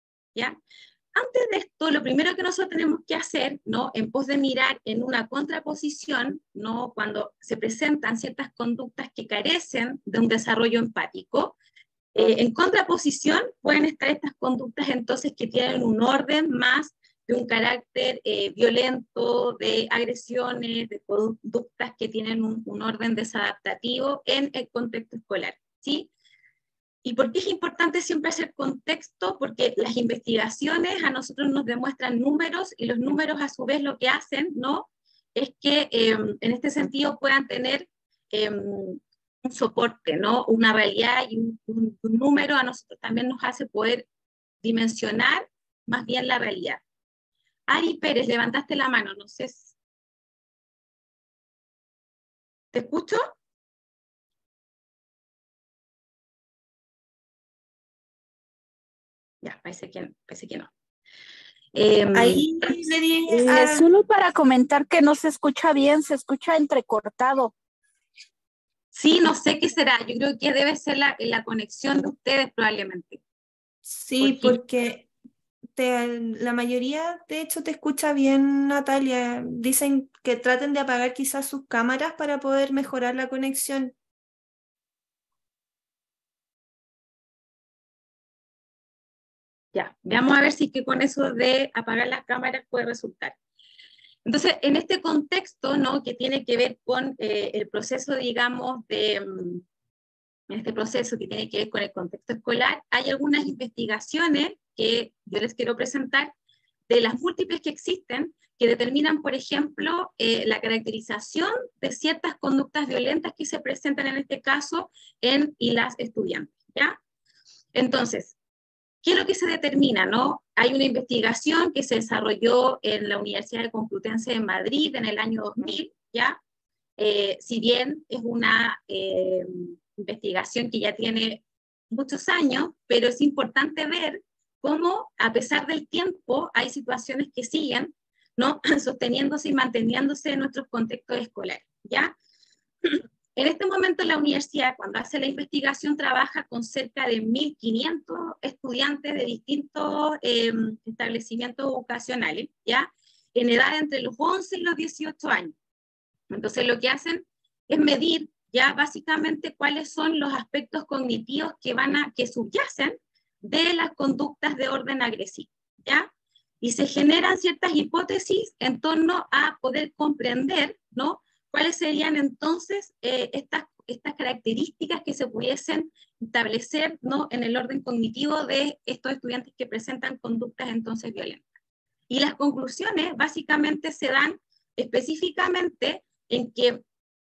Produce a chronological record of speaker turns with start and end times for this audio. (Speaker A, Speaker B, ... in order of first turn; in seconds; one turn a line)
Speaker A: 1.1-11.5
Speaker A: 12.1-26.1
Speaker A: 27.0-44.0
Speaker A: 44.6-46.8
Speaker A: 47.7-49.7
Speaker A: 52.7-53.2
Speaker A: 59.4-60.7
Speaker A: 61.7-62.9
Speaker B: 62.1-63.9
Speaker C: 63.3-67.5
Speaker A: 68.9-73.2
Speaker B: 73.8-75.0
Speaker A: 74.2-74.6
Speaker B: 75.8-83.9
Speaker A: 89.7-93.3
Speaker A: 94.2-99.6
Speaker A: 100.5-106.3
Speaker A: 106.9-117.0
Speaker A: 117.7-118.3
Speaker A: 119.0-126.4
Speaker A: 127.0-142.1
Speaker A: 142.8-155.5
Speaker A: 156.3-181.4
Speaker A: 182.1-186.8